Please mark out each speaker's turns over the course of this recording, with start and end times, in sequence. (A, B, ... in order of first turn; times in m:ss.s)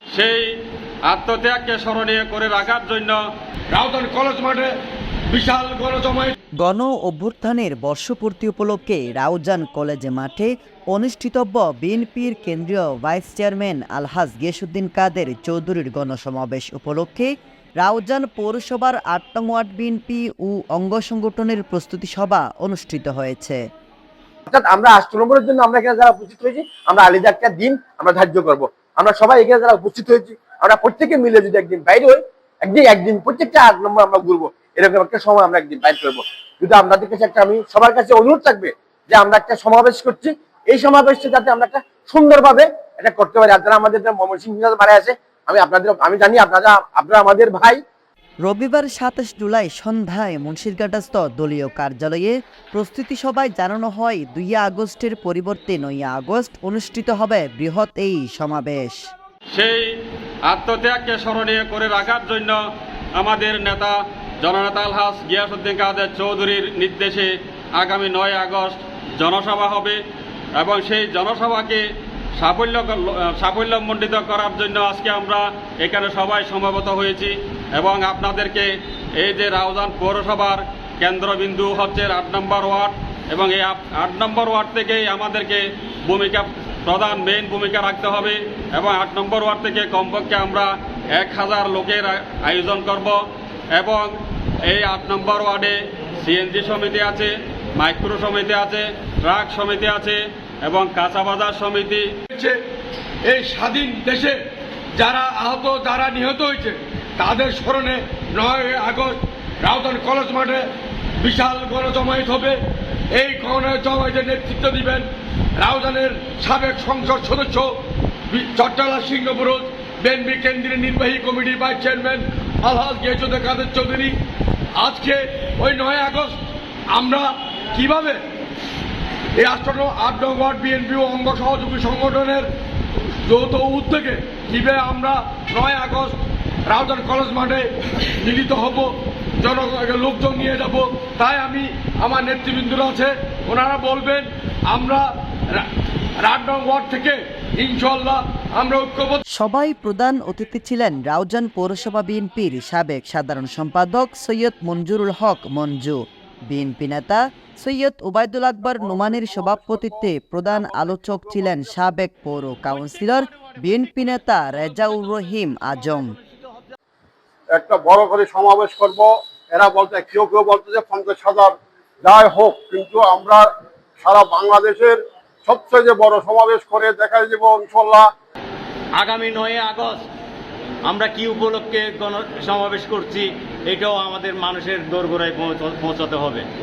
0:00.1-0:00.5 A
0:01.1-0:03.2 A
0:03.7-0:04.7 B
0:05.3-0:06.3 B
0:06.6-0:17.3 C
0:17.8-0:23.6 C
0:24.5-0:47.8 D
0:48.4-0:59.0 C
0:59.5-0:59.8 A
1:00.5-1:02.6 A
1:03.2-1:10.0 A
1:10.6-1:11.8 A
1:12.4-1:18.7 A
1:19.2-1:33.2 A
1:33.7-1:34.1 A
1:34.7-1:42.0 A
1:42.3-1:42.6 B
1:43.3-1:44.4 B
1:45.0-1:50.6 B
1:51.2-1:52.6 B
1:53.1-1:55.0 B
1:55.6-1:57.8 B
1:58.3-2:04.1 B
2:04.8-2:06.4 B
2:06.9-2:08.2 B
2:09.4-2:12.4 B
2:13.2-2:25.7 B
2:26.2-2:29.2 B
2:29.3-2:46.1 C
2:47.5-2:58.1 E
2:59.0-3:00.0 F
3:00.9-3:06.4 F